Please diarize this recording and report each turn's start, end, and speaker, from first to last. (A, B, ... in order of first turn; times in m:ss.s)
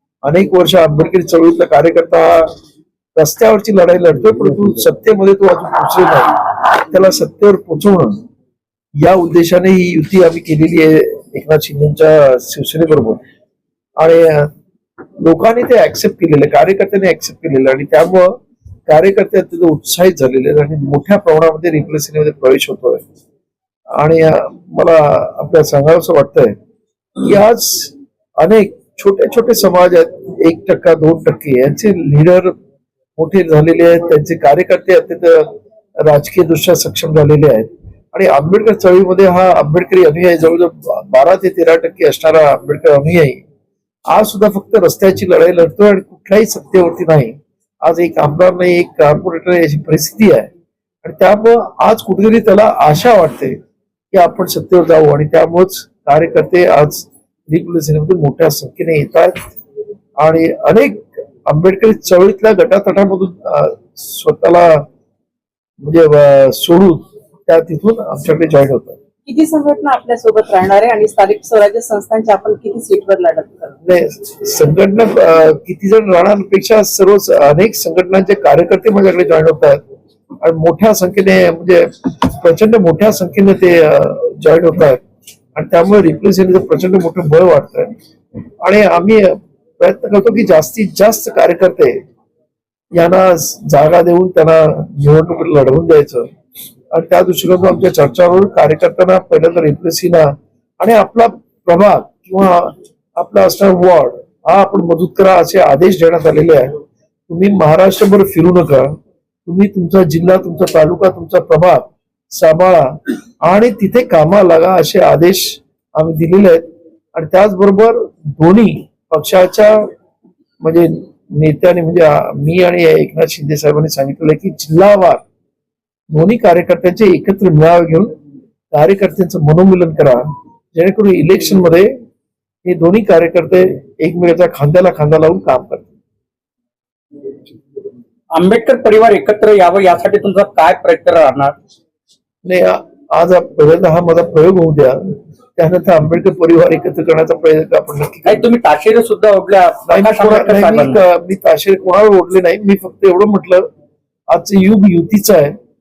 0:00.2-0:02.5 A
0:03.2-0:06.4 A
0:06.9-0:08.2 A
0:09.0-0:13.2 A
0:14.0-0:14.5 A
0:15.2-0:23.0 A
0:23.9-0:26.6 A
0:27.2-0:32.5 A
0:33.2-0:43.4 A
0:44.1-0:50.5 A
0:51.0-0:53.6 A
0:54.1-0:59.4 A
1:00.2-1:04.8 A
1:05.8-1:09.0 A
1:09.3-1:13.8 B
1:13.8-1:19.8 A
1:20.4-1:25.0 A
1:25.6-1:28.0 A
1:28.6-1:32.0 A
1:32.9-1:36.3 A
1:36.9-1:59.9 A
2:00.6-2:05.2 A
2:06.1-2:08.2 A
2:08.7-2:11.9 A
2:12.6-2:15.9 A
2:18.3-2:21.6 C
2:22.4-2:28.4 A
2:28.3-2:31.0 C
2:29.9-2:33.7 A
2:34.3-2:35.6 A